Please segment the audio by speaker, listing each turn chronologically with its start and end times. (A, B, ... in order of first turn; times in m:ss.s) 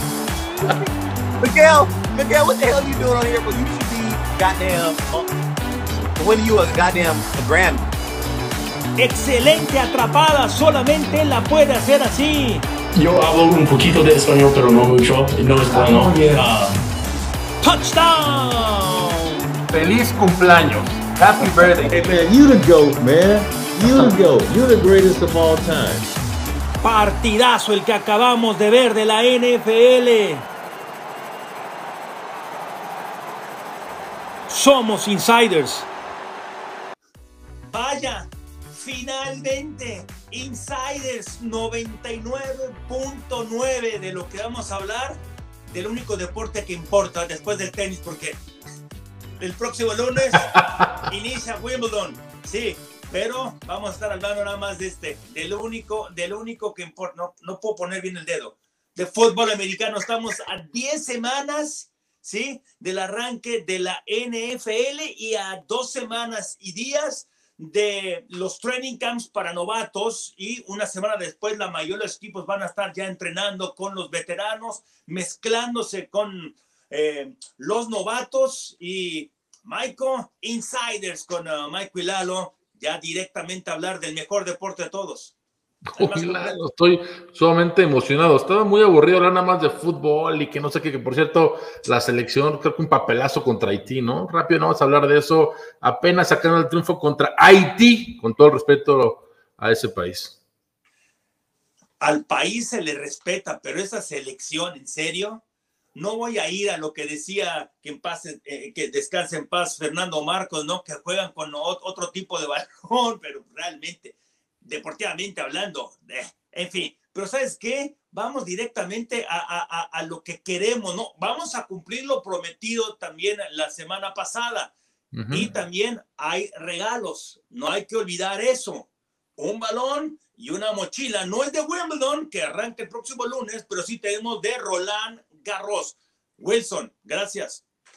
0:01.4-0:05.3 A
0:06.2-0:07.9 A
0:09.0-0:12.6 B
0:12.9-0:16.8 C
0:17.6-0:19.3 B
0:19.7-0:21.9 D
0:21.9-0:26.2 E
0:26.8-0:30.4 B
0:34.5-0:35.9 B
0:37.7-0:48.4 B
0:49.4-1:25.3 B
1:25.9-1:40.4 D
1:26.0-1:26.6 B
1:42.0-1:45.4 B
1:45.9-2:04.7 B
2:05.1-2:05.5 D
2:05.3-2:17.6 B